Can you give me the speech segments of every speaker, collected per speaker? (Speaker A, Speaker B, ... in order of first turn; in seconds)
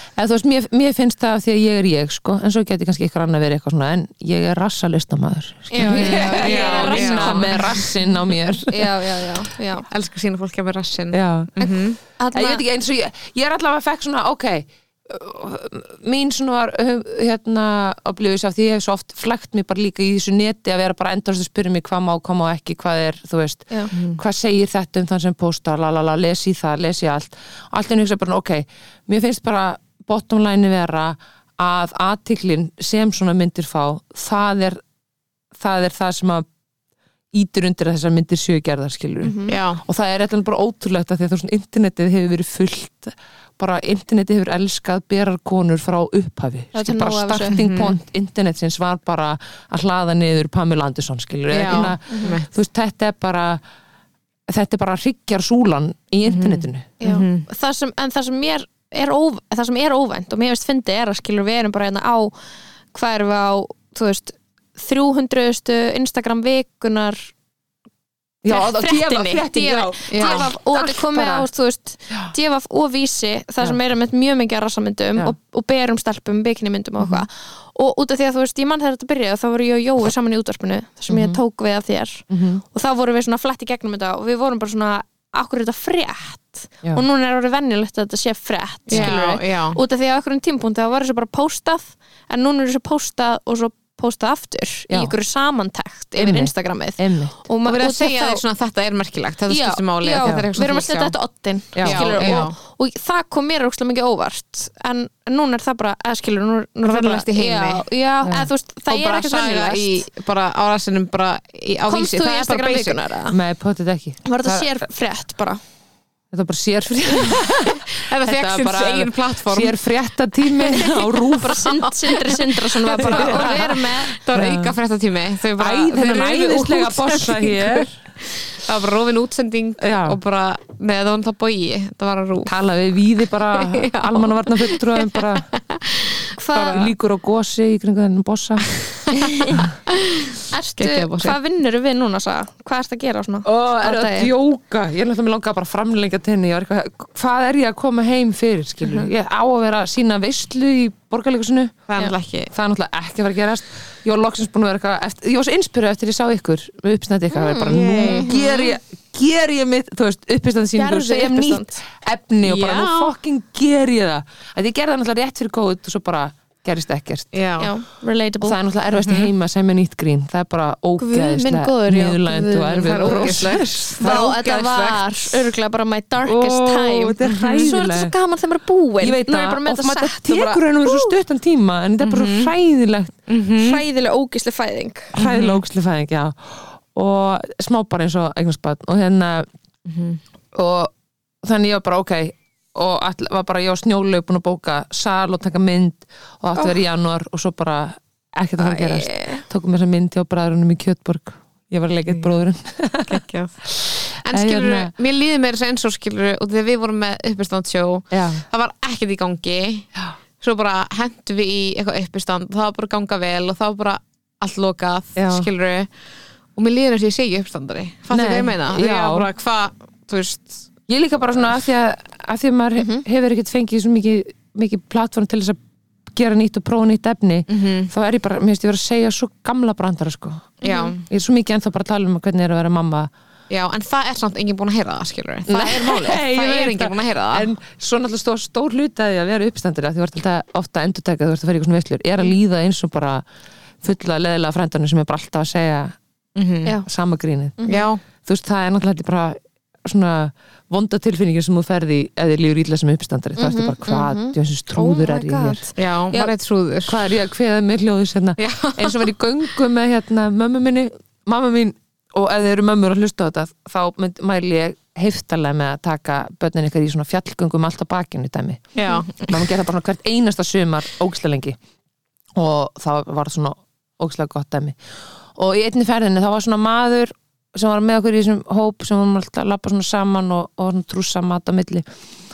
Speaker A: 0.2-9.2, 11.1-11.5, 12.3-34.8, 35.5-36.5, 37.3-53.6, 54.5-56.9, 68.4-71.5, 82.3-82.6, 88.9-89.2, 94.9-95.1, 96.2-97.3, 101.8-102.5, 113.3-114.7, 116.3-121.6, 123.0-124.8, 125.6-127.9, 129.8-130.2, 132.4-135.5, 136.6-138.7, 143.4-151.9, 152.5-167.3, 168.4-174.4, 176.2-178.1, 179.0-183.2, 185.1-189.5, 190.5-190.9, 191.4-203.2, 203.8-204.9, 208.1-208.5, 215.2-215.5, 218.1-219.3, 220.9-225.6, 226.1-233.1, 235.5-243.2, 243.8-246.0, 246.9-247.6, 248.2-255.6, 256.9-271.6, 272.4-274.8, 275.4-281.9
Speaker B: 5.7-7.6, 8.7-9.8, 11.6-12.6, 39.2-39.6, 46.7-47.6, 51.7-52.4, 57.0-62.4, 62.9-67.3, 68.5-98.4, 99.5-110.1, 111.9-113.4, 114.2-115.6, 120.6-124.2, 136.4-136.9, 139.1-139.7, 140.5-144.3, 157.3-158.7, 160.8-161.8, 167.6-168.6, 171.0-181.1, 183.6-185.1, 198.6-199.4, 222.8-223.0, 230.6-230.9, 247.6-247.9, 253.4-256.3
Speaker C: 5.8-7.7, 9.9-12.0, 23.9-24.2, 39.5-39.8, 47.5-48.0, 51.5-52.5, 56.3-57.5, 70.1-70.5, 88.9-89.8, 97.7-101.1, 101.8-102.5, 106.8-107.8, 108.9-113.1, 117.6-119.8, 121.2-132.5, 133.5-136.9, 139.9-141.4, 151.9-152.5, 157.7-158.4, 162.4-163.1, 167.3-167.7, 168.9-169.3, 172.7-175.4, 177.2-177.7, 182.0-182.5, 183.3-183.8, 185.2-185.6, 189.9-190.2, 203.1-209.9, 210.4-215.9, 216.6-220.6, 227.5-227.9, 230.6-231.0, 233.5-237.5, 246.4-246.8, 247.7-248.0, 255.8-257.1, 258.4-259.1, 268.8-269.4